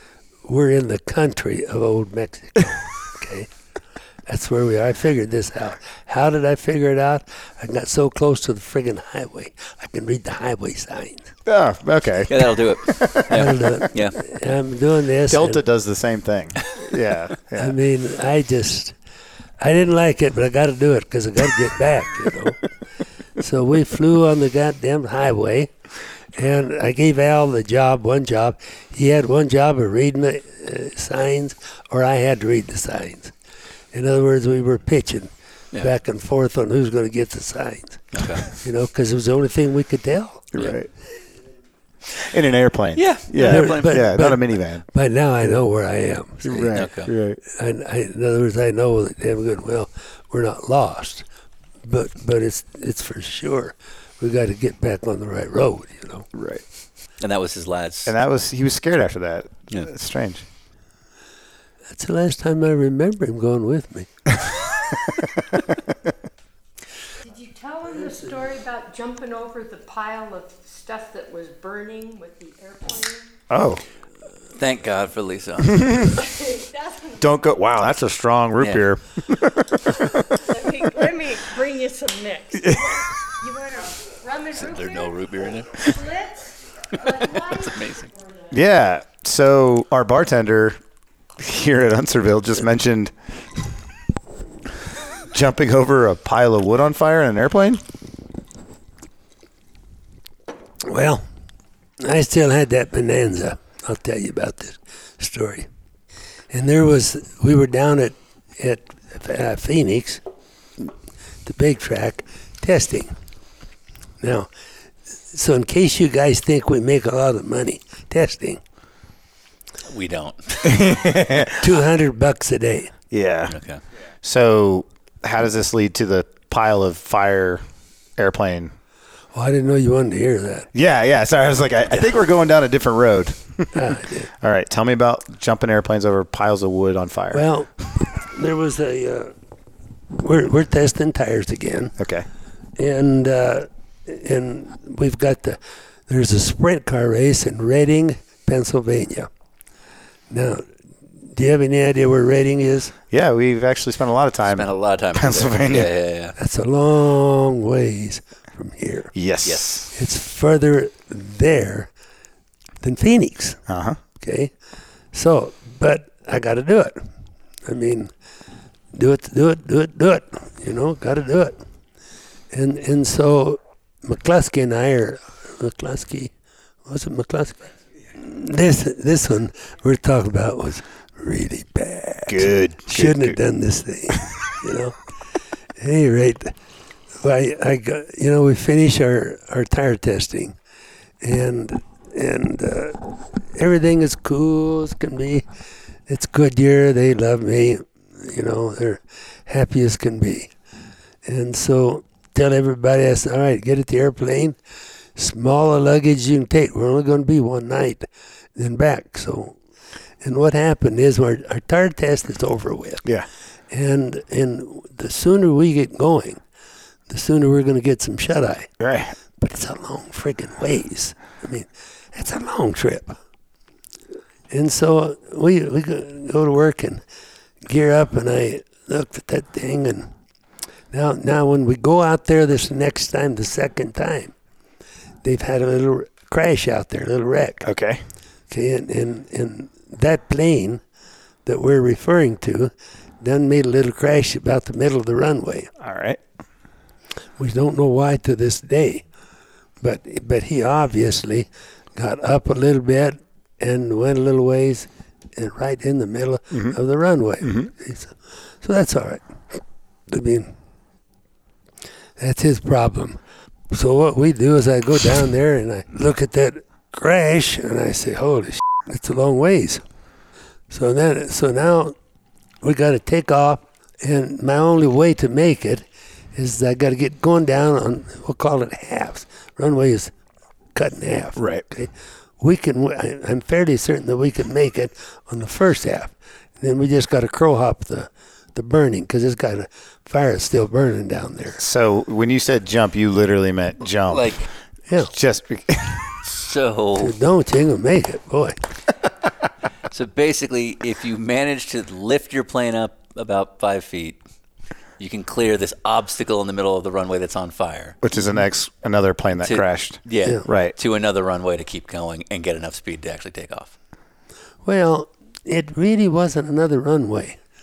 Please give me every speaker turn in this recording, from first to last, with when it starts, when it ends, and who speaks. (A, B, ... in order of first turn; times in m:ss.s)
0:00.4-0:03.5 A
0:04.2-0:11.3 A
0:11.4-0:13.3 B
0:12.3-0:14.2 C
0:13.3-0:15.6 A
0:15.3-0:17.8 B
0:17.6-0:19.0 A
0:19.6-0:22.6 A
0:23.4-0:25.7 A
0:26.3-0:33.3 A
0:33.9-0:40.5 A
0:38.1-0:38.4 C
0:40.5-0:40.9 B
0:42.1-0:44.8 B
0:42.9-0:44.0 C
0:43.4-0:46.8 A
0:46.4-0:47.4 B
0:46.7-0:47.1 C
0:47.4-0:51.2 A
0:51.8-0:56.3 A
0:56.3-0:56.6 B
0:57.2-0:58.1 C
0:58.0-1:00.4 B
1:01.9-1:04.1 A
1:07.2-1:13.3 D
1:13.5-1:13.8 B
1:14.6-1:16.1 C
1:15.6-1:16.2 B
1:16.0-1:17.4 D
1:17.2-1:20.2 B
1:20.2-1:28.6 D
1:24.5-1:25.9 C
1:27.0-1:28.1 C
1:28.5-1:30.8 B
1:31.4-1:33.1 B
1:35.2-1:37.8 B
1:40.8-1:41.2 A
1:42.0-1:45.7 A
1:46.5-1:50.2 A
1:51.4-1:53.1 A
1:54.2-1:54.5 A
1:55.3-1:58.6 A
1:59.8-2:00.9 C
2:00.6-2:01.7 B
2:01.6-2:02.9 A
2:03.1-2:03.6 B
2:03.5-2:03.8 C
2:04.2-2:07.6 B
2:08.2-2:08.7 B
2:09.3-2:10.7 A
2:10.7-2:17.4 B
2:13.7-2:14.3 A
2:17.3-2:19.3 A
2:20.2-2:21.9 A
2:22.0-2:22.3 B
2:22.8-2:29.3 A
2:30.3-2:32.9 A
2:33.1-2:35.9 B
2:34.4-2:36.3 C
2:36.4-2:39.1 A
2:39.1-2:39.9 B
2:39.4-2:39.8 C
2:39.9-2:41.9 A
2:42.8-2:43.6 A
2:43.7-2:44.0 B
2:44.2-2:44.5 A
2:45.1-2:47.1 A
2:47.6-2:48.1 A
2:48.9-2:51.6 A
2:52.5-2:56.3 A
2:56.8-3:05.0 A
3:02.3-3:03.4 B
3:05.8-3:06.5 A
3:07.2-3:10.6 A
3:11.2-3:15.4 A
3:16.1-3:20.5 A
3:21.2-3:24.6 A
3:25.1-3:29.6 A
3:30.2-3:33.0 A
3:33.7-3:36.4 A
3:37.1-3:38.7 A
3:38.8-3:39.2 B
3:39.4-3:43.2 A
3:44.5-3:47.0 A
3:47.6-3:50.1 A
3:50.9-3:54.3 A
3:55.2-3:57.7 A
3:57.6-3:58.0 B
3:58.5-4:00.8 A
4:01.4-4:05.7 A
4:05.8-4:06.2 B
4:07.4-4:09.0 A
4:09.8-4:20.5 A
4:16.5-4:16.8 B
4:17.4-4:17.7 B
4:22.2-4:23.2 A
4:23.7-4:29.8 A
4:30.7-4:31.9 A
4:32.6-4:40.1 A
4:40.7-4:51.6 A
4:41.4-4:41.6 B
4:51.6-4:54.4 B
4:54.1-4:54.5 C
4:55.0-4:56.2 B
4:56.2-4:57.1 C
4:57.0-4:58.6 A
4:59.9-5:04.2 C
5:05.0-5:08.0 C
5:08.0-5:10.7 B
5:09.4-5:13.7 C
5:14.6-5:17.4 A